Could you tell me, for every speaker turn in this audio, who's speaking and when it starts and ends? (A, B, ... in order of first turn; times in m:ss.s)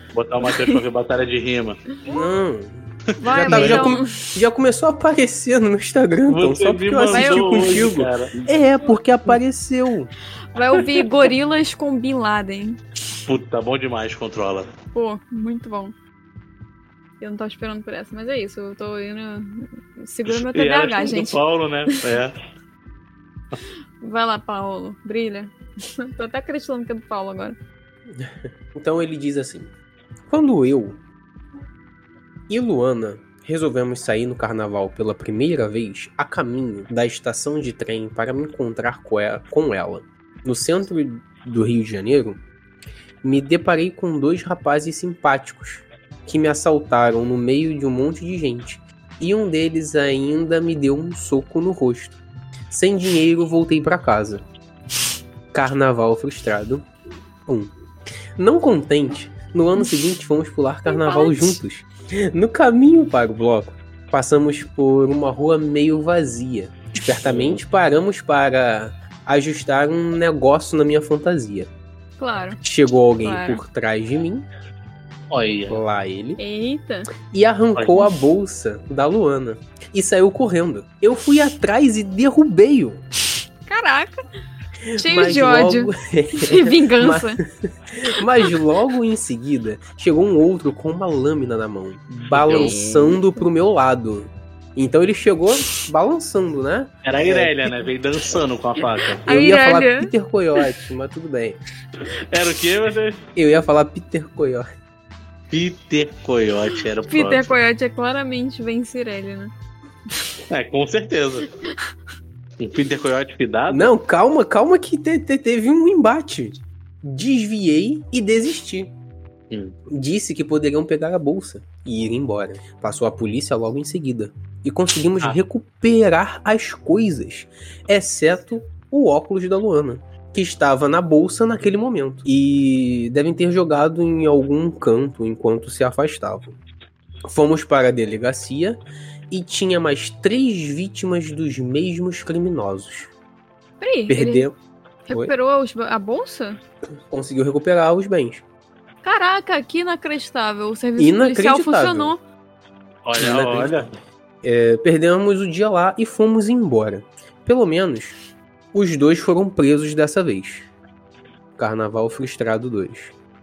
0:00.1-0:01.8 A
0:00.4-0:00.8 B
0:02.0-0:10.1 C
0:03.2-0:04.1 B
0:03.4-0:04.0 A
0:06.3-0:08.3 A
0:07.1-0:07.9 B
0:10.5-0:12.8 B
0:13.2-0:14.7 A
0:14.9-0:15.9 B
0:17.2-0:22.0 B
0:20.3-0:22.3 A
0:24.0-0:27.6 B
0:28.2-0:29.7 C
0:30.3-0:31.0 C
0:32.5-0:42.4 C
0:43.2-0:54.4 C
0:55.5-0:56.9 C
0:57.4-0:57.7 C
0:58.4-1:11.7 C
1:00.8-1:01.6 B
1:07.2-1:07.6 A
1:12.2-1:12.6 B
1:12.6-1:14.5 C
1:13.2-1:13.6 B
1:15.3-1:15.8 A
1:15.7-1:16.4 C
1:16.4-1:17.1 B
1:17.3-1:23.0 C
1:17.8-1:18.1 A
1:23.7-1:24.2 B
1:24.9-1:37.6 C
1:25.0-1:27.4 B
1:32.3-1:32.7 A
1:32.5-1:33.4 B
1:37.0-1:39.2 A
1:39.2-1:40.1 B
1:39.3-1:41.6 C
1:42.3-1:43.2 A
1:43.4-1:44.7 C
1:45.5-1:47.6 A
1:47.1-1:49.5 B
1:50.5-1:51.5 A
1:52.6-1:53.9 A
1:53.7-1:58.9 C
1:59.5-1:59.7 A
1:59.9-2:16.6 C
2:17.2-2:23.1 C
2:23.8-2:24.5 B
2:24.1-2:24.5 C
2:25.1-2:26.6 B
2:27.1-2:28.4 C
2:29.0-2:32.2 B
2:31.0-2:32.1 C
2:33.0-2:33.9 A
2:33.2-2:33.9 C
2:34.4-2:38.2 C
2:38.7-2:40.7 C
2:41.6-2:43.1 C